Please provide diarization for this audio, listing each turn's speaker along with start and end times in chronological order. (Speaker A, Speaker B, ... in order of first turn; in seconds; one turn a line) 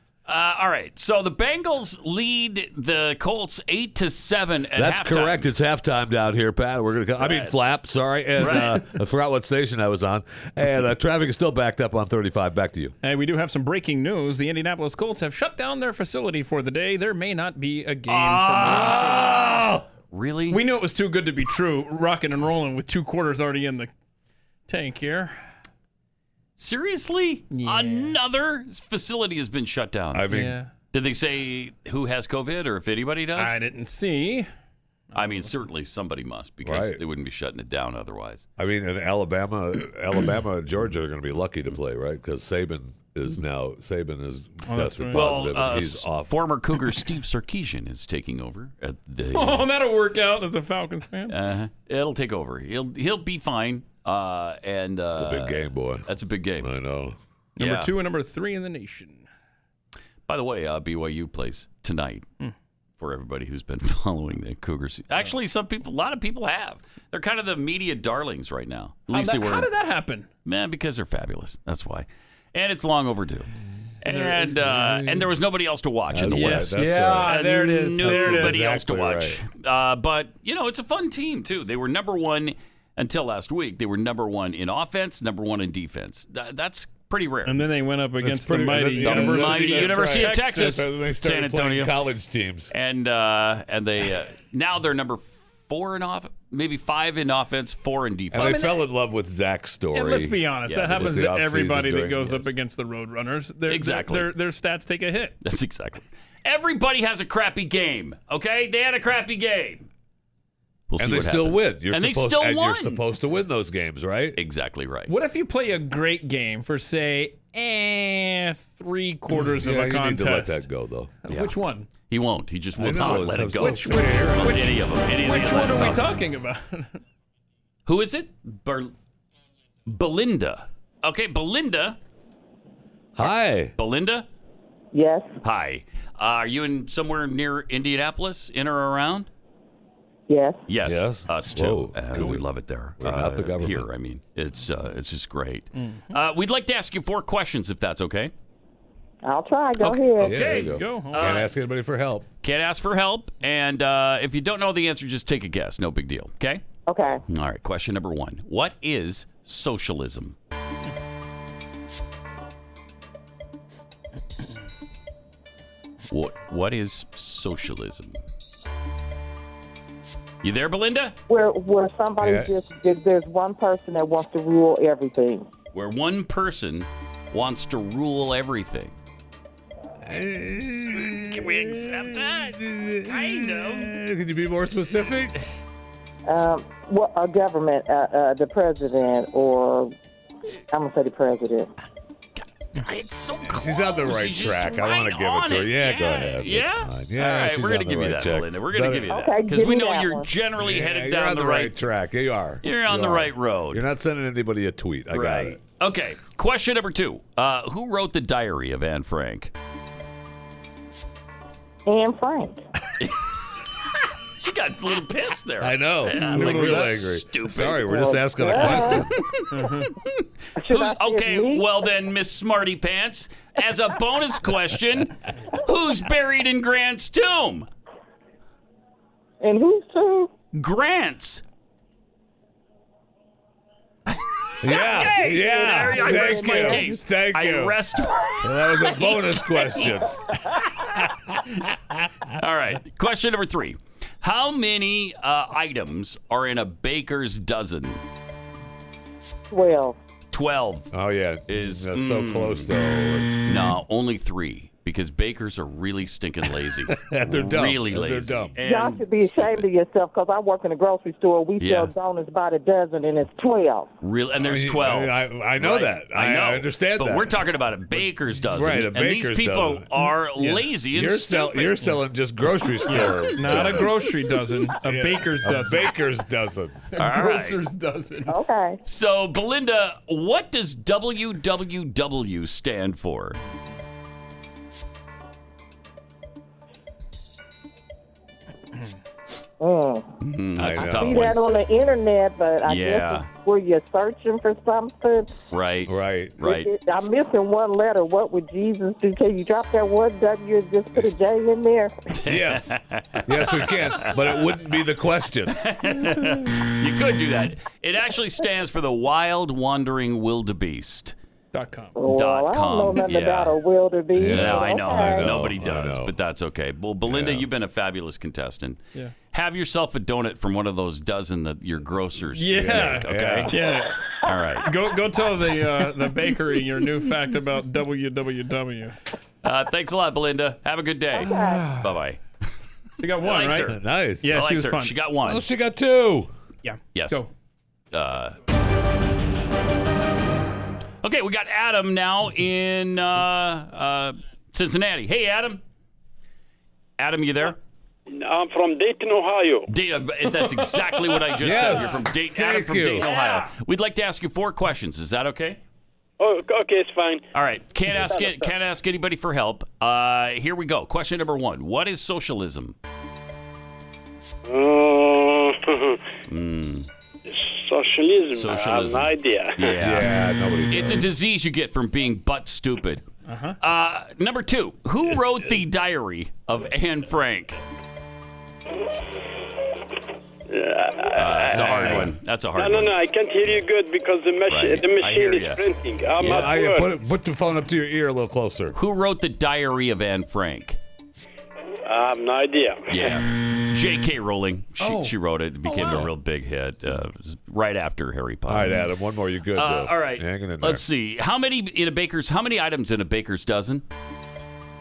Speaker A: 0.2-5.5
Speaker B: 4.7-12.9
Speaker A: 7.2-7.5
Speaker A: 8.4-8.8
Speaker C: 13.0-19.5
Speaker A: 18.1-19.3
Speaker B: 18.6-19.8
Speaker A: 20.1-20.6
Speaker C: 20.5-23.9
Speaker C: 24.7-25.4
Speaker A: 26.6-30.3
Speaker C: 27.5-28.1
Speaker B: 30.1-30.6
Speaker C: 30.3-30.7
Speaker A: 30.9-33.6
Speaker C: 33.4-34.5
Speaker C: 35.1-35.5
Speaker A: 35.1-38.5
Speaker B: 36.6-37.0
Speaker B: 38.6-46.3
Speaker C: 44.6-45.3
Speaker A: 45.1-49.7
Speaker C: 49.3-51.4
Speaker A: 51.3-56.7
Speaker B: 55.1-56.1
Speaker B: 56.6-57.1
Speaker C: 57.6-59.2
Speaker A: 57.6-57.9
Speaker A: 60.3-62.2
Speaker A: 63.0-69.7
Speaker C: 69.1-70.3
Speaker A: 70.4-73.5
Speaker A: 74.0-87.6
Speaker C: 74.1-74.5
Speaker B: 74.5-75.3
Speaker B: 76.1-77.4
Speaker C: 76.3-78.7
Speaker B: 78.0-79.4
Speaker C: 87.5-90.9
Speaker B: 88.2-92.7
Speaker A: 89.0-92.0
Speaker A: 92.7-98.7
Speaker B: 98.3-102.5
Speaker C: 98.4-98.8
Speaker C: 99.9-105.4
Speaker A: 100.7-101.0
Speaker A: 103.7-104.3
Speaker A: 105.4-109.8
Speaker A: 110.9-113.0
Speaker B: 111.0-114.4
Speaker A: 114.3-115.1
Speaker C: 115.1-120.6
Speaker B: 119.6-121.1
Speaker C: 121.2-121.9
Speaker A: 121.3-121.5
Speaker A: 122.1-126.2
Speaker B: 122.8-124.6
Speaker C: 123.6-127.0
Speaker A: 127.8-128.9
Speaker A: 129.9-132.0
Speaker B: 133.1-133.7
Speaker A: 133.8-134.3
Speaker D: 134.9-135.3
Speaker A: 135.4-139.3
Speaker D: 140.3-140.6
Speaker A: 140.7-148.3
Speaker B: 140.8-142.4
Speaker B: 143.0-143.9
Speaker C: 145.8-146.1
Speaker D: 149.2-150.4
Speaker A: 149.8-151.5
Speaker B: 150.2-152.3
Speaker C: 150.7-151.3
Speaker A: 152.4-156.6
Speaker D: 156.9-157.2
Speaker A: 157.3-160.4
Speaker A: 166.1-168.2
Speaker A: 170.4-171.2
Speaker D: 171.3-175.5
Speaker B: 172.2-172.5
Speaker A: 175.7-178.9
Speaker B: 180.0-185.3
Speaker A: 181.0-183.9
Speaker D: 186.2-189.9
Speaker D: 190.7-191.7
Speaker A: 192.8-201.8
Speaker B: 193.4-199.2
Speaker D: 199.1-200.3
Speaker B: 200.6-205.6
Speaker A: 202.6-203.8
Speaker A: 205.1-209.5
Speaker D: 211.8-212.6
Speaker A: 214.4-219.5
Speaker B: 215.6-219.1
Speaker C: 216.2-217.0
Speaker D: 217.8-219.1
Speaker C: 219.5-219.9
Speaker A: 220.0-227.7
Speaker D: 220.6-221.9
Speaker D: 229.4-230.3
Speaker A: 230.5-231.4
Speaker B: 234.6-237.8
Speaker A: 234.7-240.6
Speaker D: 235.3-236.9
Speaker B: 238.4-242.0
Speaker A: 242.4-248.0
Speaker D: 249.5-250.0
Speaker A: 250.3-250.9
Speaker B: 250.9-253.3
Speaker A: 251.5-252.7
Speaker A: 253.4-259.6
Speaker B: 256.9-258.6
Speaker D: 258.6-263.9
Speaker A: 261.6-261.9
Speaker A: 264.0-271.9
Speaker B: 264.4-267.4
Speaker B: 267.9-269.9
Speaker C: 270.4-270.7
Speaker B: 270.9-273.9
Speaker A: 272.9-273.8
Speaker C: 272.9-275.9
Speaker B: 274.8-276.8
Speaker C: 276.9-278.4
Speaker A: 277.0-277.6
Speaker D: 278.3-278.8
Speaker A: 278.8-283.4
Speaker D: 289.6-290.1
Speaker A: 290.2-291.4
Speaker B: 290.6-291.3
Speaker D: 290.7-295.3
Speaker A: 292.6-293.3
Speaker A: 295.5-296.7
Speaker B: 295.9-296.4
Speaker D: 296.4-301.9
Speaker A: 302.1-304.1
Speaker B: 302.2-305.6
Speaker A: 305.6-311.1
Speaker C: 311.5-311.9
Speaker D: 311.9-315.3
Speaker A: 312.1-313.6
Speaker B: 314.1-316.1
Speaker A: 314.3-318.8
Speaker B: 317.1-317.5
Speaker A: 319.3-323.5
Speaker C: 322.4-324.0
Speaker B: 322.5-323.6
Speaker A: 324.2-324.7
Speaker C: 324.6-329.0
Speaker A: 329.4-332.2
Speaker D: 331.2-331.7
Speaker C: 331.2-331.9
Speaker C: 333.0-334.9
Speaker A: 333.2-335.4
Speaker B: 333.6-334.4
Speaker B: 335.2-336.3
Speaker C: 336.6-337.3
Speaker A: 336.9-337.2
Speaker A: 337.9-338.4
Speaker A: 341.0-345.6
Speaker A: 347.0-347.6
Speaker E: 348.1-349.7
Speaker A: 349.7-355.6
Speaker C: 350.3-352.0
Speaker B: 351.4-353.1
Speaker C: 353.0-353.5
Speaker E: 356.2-357.2
Speaker A: 357.3-362.8
Speaker E: 358.0-358.4
Speaker E: 364.4-366.0
Speaker A: 366.3-366.9
Speaker E: 367.3-369.7
Speaker A: 368.3-370.1
Speaker B: 369.8-371.1
Speaker A: 370.7-373.0
Speaker C: 373.2-373.6
Speaker A: 373.6-377.6
Speaker E: 380.5-382.0
Speaker A: 381.1-382.9
Speaker B: 381.6-382.1
Speaker E: 382.5-386.9
Speaker A: 384.5-385.6
Speaker A: 386.1-386.6
Speaker B: 386.2-388.8
Speaker A: 388.7-390.8
Speaker E: 391.9-393.2
Speaker A: 392.9-398.8
Speaker C: 394.8-395.1
Speaker C: 395.6-396.1
Speaker B: 398.5-400.8
Speaker A: 399.5-403.8